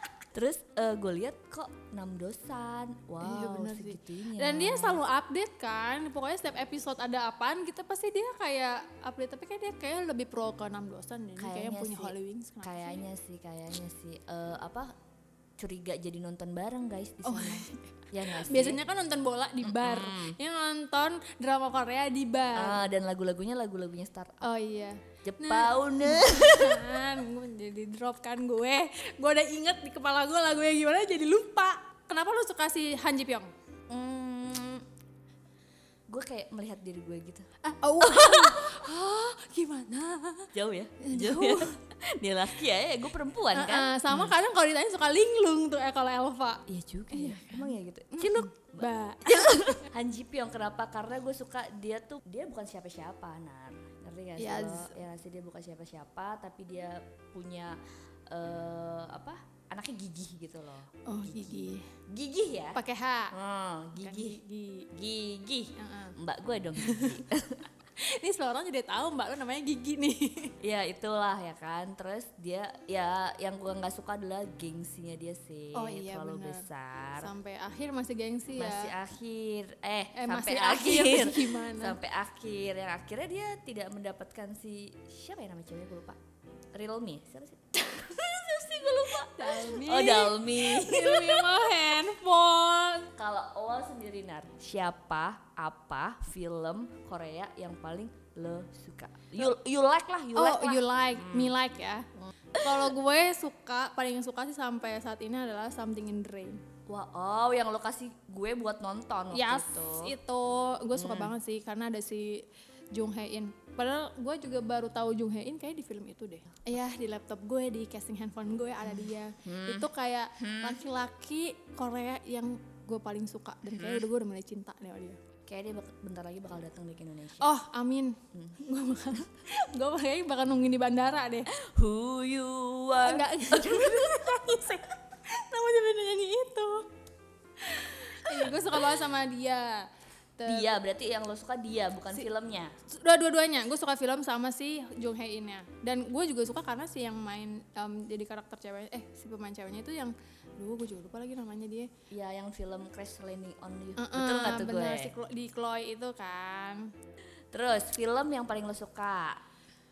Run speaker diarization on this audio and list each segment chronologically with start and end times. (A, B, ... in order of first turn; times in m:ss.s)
0:00.3-0:05.0 A
0:03.2-0:13.0 B
0:11.4-0:14.9 A
0:15.6-0:18.8 A
0:17.2-0:22.8 B
0:19.6-0:20.4 A
0:22.5-0:24.4 A
0:24.4-0:33.5 B
0:25.2-0:27.0 A
0:33.9-0:34.8 A
0:36.1-0:37.5 A
0:37.6-0:41.8 B
0:38.0-0:38.8 A
0:40.5-0:44.3 A
0:43.5-0:49.5 B
0:46.7-1:02.8 A
0:54.4-0:55.0 B
1:01.0-1:01.9 B
1:02.7-1:03.3 B
1:03.3-1:04.4 A
1:04.0-1:04.9 B
1:04.9-1:07.7 A
1:05.8-1:06.2 B
1:06.8-1:07.2 B
1:08.0-1:10.5 B
1:10.6-1:17.3 A
1:15.7-1:18.9 B
1:18.6-1:26.2 A
1:20.1-1:22.0 B
1:26.7-1:31.6 A
1:29.0-1:33.1 B
1:33.1-1:41.5 A
1:40.3-1:46.6 B
1:42.2-1:42.9 A
1:46.9-1:50.1 A
1:49.3-2:05.2 B
1:50.9-1:51.3 A
1:59.4-2:00.8 A
2:03.7-2:04.1 A
2:05.4-2:07.5 A
2:07.4-2:11.5 B
2:08.3-2:08.6 A
2:11.5-2:14.4 A
2:13.0-2:16.9 B
2:17.6-2:20.7 B
2:20.4-2:22.7 A
2:22.9-2:31.9 B
2:32.1-2:35.1 A
2:34.0-2:36.9 B
2:37.5-2:39.4 A